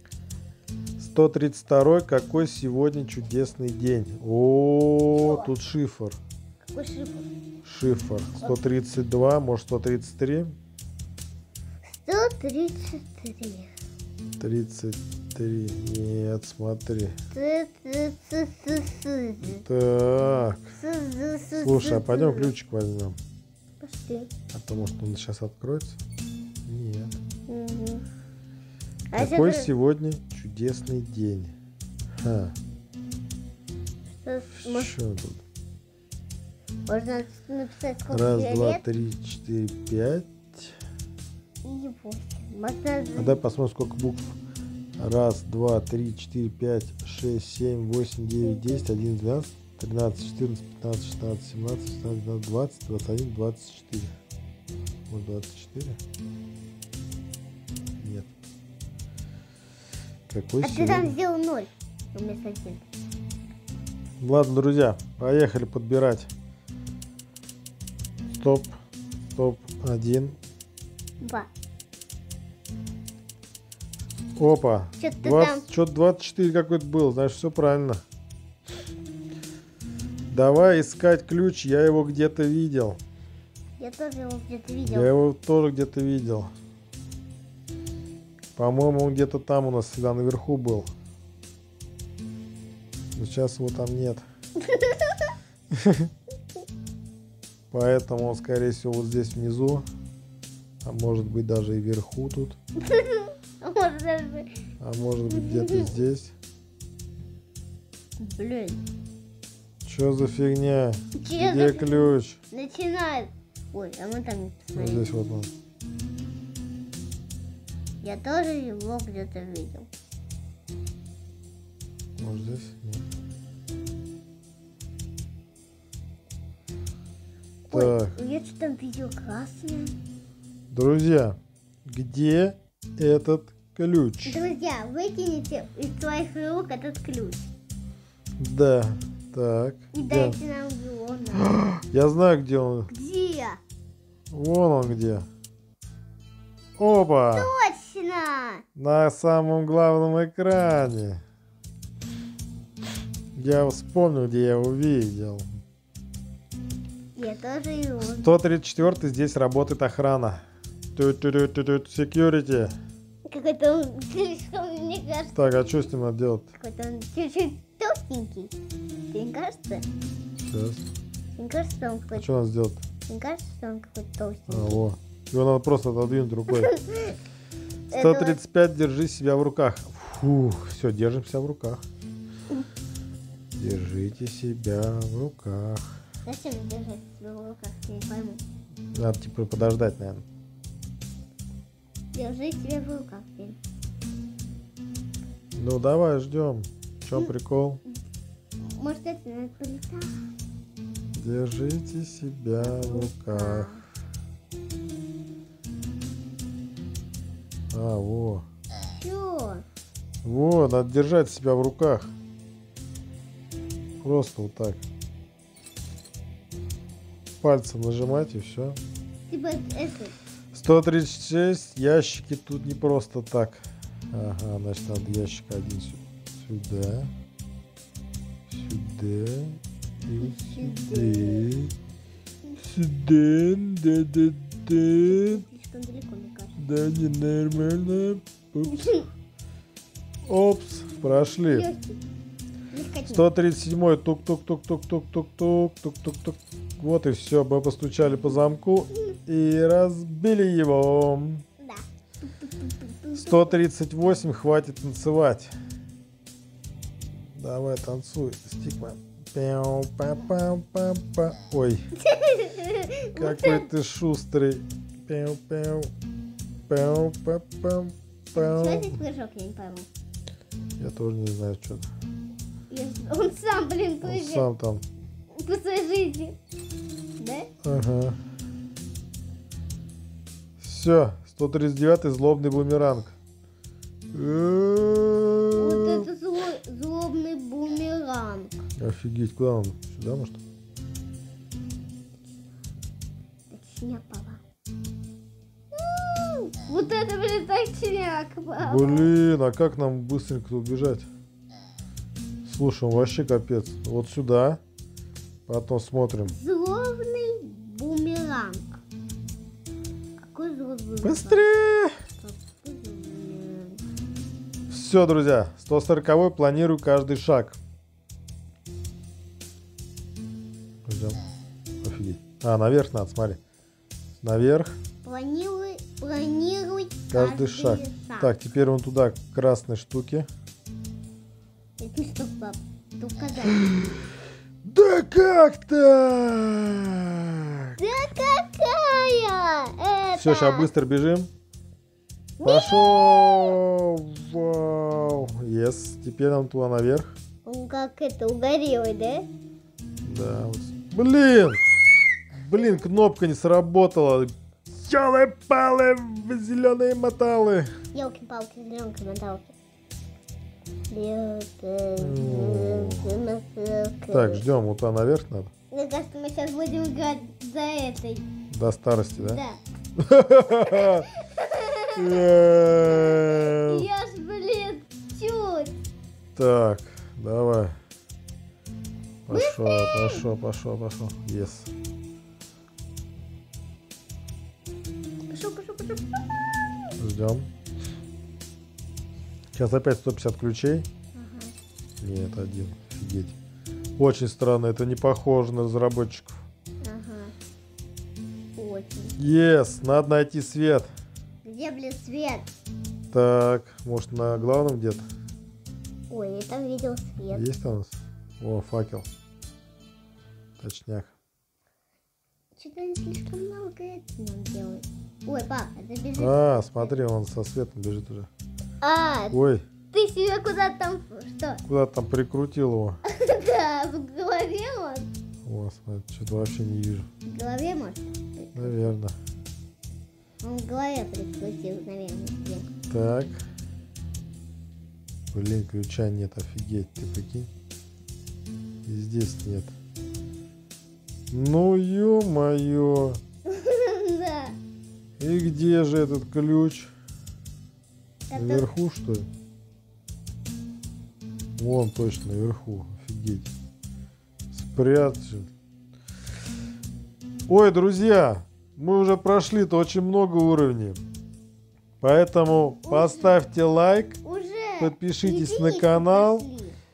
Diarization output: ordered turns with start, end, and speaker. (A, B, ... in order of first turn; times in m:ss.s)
0:01.0-0:06.2 A
0:05.1-0:05.5 B
0:06.6-0:07.3 B
0:07.6-0:10.5 A
0:11.8-0:13.7 B
0:14.4-0:17.2 A
0:17.3-0:19.6 B
0:19.4-0:20.7 A
0:20.7-0:22.5 B
0:21.6-0:23.2 A
0:23.8-0:24.3 B
0:24.5-0:26.0 A
0:26.6-0:27.2 A
0:27.5-0:28.0 B
0:29.1-0:29.7 B
0:29.1-0:31.5 A
0:32.2-0:32.5 A
0:34.2-0:34.9 B
0:34.5-0:35.4 A
0:36.9-0:38.8 B
0:38.1-0:40.7 A
0:41.6-0:43.4 B
0:43.2-0:44.4 A
0:45.0-0:54.1 A
0:48.4-0:48.8 B
0:55.1-0:56.0 A
0:58.0-0:58.3 A
1:00.3-1:01.2 A
1:00.6-1:02.8 B
1:04.2-1:06.3 A
1:08.3-1:08.8 A
1:09.3-1:10.4 A
1:11.2-1:11.5 B
1:14.4-1:18.0 A
1:15.0-1:15.6 B
1:20.3-1:23.0 A
1:23.8-1:25.1 B
1:24.9-1:26.5 A
1:28.6-1:30.9 A
1:33.1-1:34.2 A
1:34.6-1:35.3 B
1:35.7-1:36.1 A
1:37.7-1:39.9 A
1:40.8-1:42.6 A
1:42.8-1:44.5 B
1:44.8-1:46.3 A
1:45.3-1:46.0 B
1:48.2-1:48.8 B
1:49.8-1:52.4 A
1:51.2-1:55.1 B
1:54.7-1:55.5 A
1:58.0-1:59.9 B
2:02.2-2:03.0 A
2:07.7-2:10.0 B
2:07.7-2:08.1 A
2:10.7-2:14.4 A
2:14.2-2:17.5 B
2:18.4-2:20.4 A
2:19.9-2:21.5 B
2:21.4-2:22.9 A
2:22.9-2:23.6 B
2:24.3-2:25.3 A
2:26.8-2:27.5 A
2:27.3-2:28.6 B
2:28.8-2:31.2 A
2:33.3-2:35.5 A
2:37.2-2:38.3 B
2:38.0-2:42.7 A
2:43.2-2:45.6 B
2:45.3-2:46.5 A
2:46.5-2:48.6 B
2:49.1-2:49.8 B
2:50.4-2:50.8 A
2:51.4-2:52.3 B
2:52.1-2:52.8 A
2:53.1-2:54.8 B
2:54.5-2:56.7 A
2:56.5-2:57.1 B
2:57.9-2:58.4 B
2:57.9-3:01.8 A
3:03.5-3:05.9 A
3:06.2-3:08.4 B
3:08.9-3:10.2 A
3:12.1-3:13.6 B
3:15.5-3:17.8 A
3:18.6-3:20.2 B
3:21.1-3:23.7 A
3:22.6-3:23.8 B
3:27.7-3:28.4 A
3:28.9-3:29.6 B
3:30.2-3:32.1 A
3:34.0-3:34.8 A
3:37.4-3:38.8 A
3:39.3-3:40.2 B
3:40.5-3:47.1 A
3:48.5-3:51.7 A
3:50.2-3:51.4 B
3:52.6-3:55.4 A
3:55.0-3:56.6 B
3:56.6-3:59.0 A
3:58.7-3:59.0 B
4:00.2-4:01.7 A
4:01.4-4:02.0 B
4:02.7-4:03.3 B
4:03.1-4:11.4 A
4:11.6-4:13.6 B
4:13.1-4:15.5 A
4:17.3-4:21.8 A
4:22.0-4:23.7 B
4:23.2-4:25.9 A
4:26.7-4:29.0 A
4:28.3-4:29.9 B
4:30.8-4:31.9 A
4:32.7-4:34.5 B
4:34.0-4:34.8 A
4:35.3-4:36.4 B
4:37.2-4:37.5 B
4:37.6-4:38.2 A
4:40.6-4:43.1 A
4:44.1-4:46.1 A
4:45.6-4:48.6 B
4:48.8-4:50.4 A
4:53.5-4:54.4 B
4:55.7-4:59.1 B
4:58.6-5:01.1 A
5:02.4-5:04.6 A
5:05.5-5:06.4 A
5:06.3-5:08.8 B
5:10.3-5:11.4 B
5:11.0-5:12.0 A
5:12.2-5:13.8 B
5:14.7-5:17.6 A
5:20.8-5:21.2 A
5:21.8-5:23.4 A
5:24.2-5:24.8 A
5:25.0-5:28.3 B
5:27.1-5:30.3 A
5:31.8-5:33.8 B
5:33.6-5:33.9 A
5:34.6-5:37.8 A
5:37.8-5:40.7 B
5:40.1-5:41.3 A
5:42.4-5:43.5 B
5:42.4-5:47.1 A
5:47.4-5:49.3 B
5:50.0-5:51.6 A
5:52.3-5:57.7 A
5:57.9-5:59.5 B
6:00.9-6:04.4 B
6:02.0-6:03.2 A
6:04.1-6:05.5 A
6:05.7-6:08.3 B
6:08.5-6:09.4 A
6:09.2-6:09.6 B
6:10.0-6:11.1 A
6:10.6-6:12.3 B
6:12.0-6:13.8 A
6:12.8-6:15.8 B
6:16.4-6:17.8 A
6:19.2-6:21.7 A
6:19.3-6:20.2 B
6:25.3-6:26.2 B
6:27.0-6:27.5 A
6:29.5-6:30.9 A
6:31.1-6:31.5 B
6:32.0-6:33.3 A
6:34.0-6:36.4 A
6:36.8-6:37.3 B
6:38.6-6:39.2 B
6:39.2-6:40.9 A
6:41.4-6:42.5 B
6:43.1-6:45.0 A
6:46.1-6:47.5 B
6:47.3-6:49.1 A
6:50.6-6:51.1 A
6:52.6-6:56.9 B
6:56.2-6:58.3 A
6:58.8-6:59.4 B
6:59.3-6:59.6 A
6:59.9-7:01.6 B
7:01.6-7:03.0 A
7:03.0-7:05.1 B
7:05.4-7:07.1 A
7:07.2-7:08.8 B
7:08.5-7:09.1 A
7:10.4-7:12.7 B
7:12.9-7:13.4 A
7:15.3-7:17.5 A
7:18.8-7:19.7 A
7:21.3-7:23.2 A
7:23.4-7:24.6 B
7:25.2-7:26.9 A
7:28.3-7:28.7 B
7:28.3-7:29.3 A
7:31.6-7:33.5 A
7:34.5-7:35.5 A
7:37.5-7:41.0 A
7:42.0-7:44.2 A
7:42.8-7:43.4 B
7:44.2-7:46.8 B
7:44.8-7:46.5 A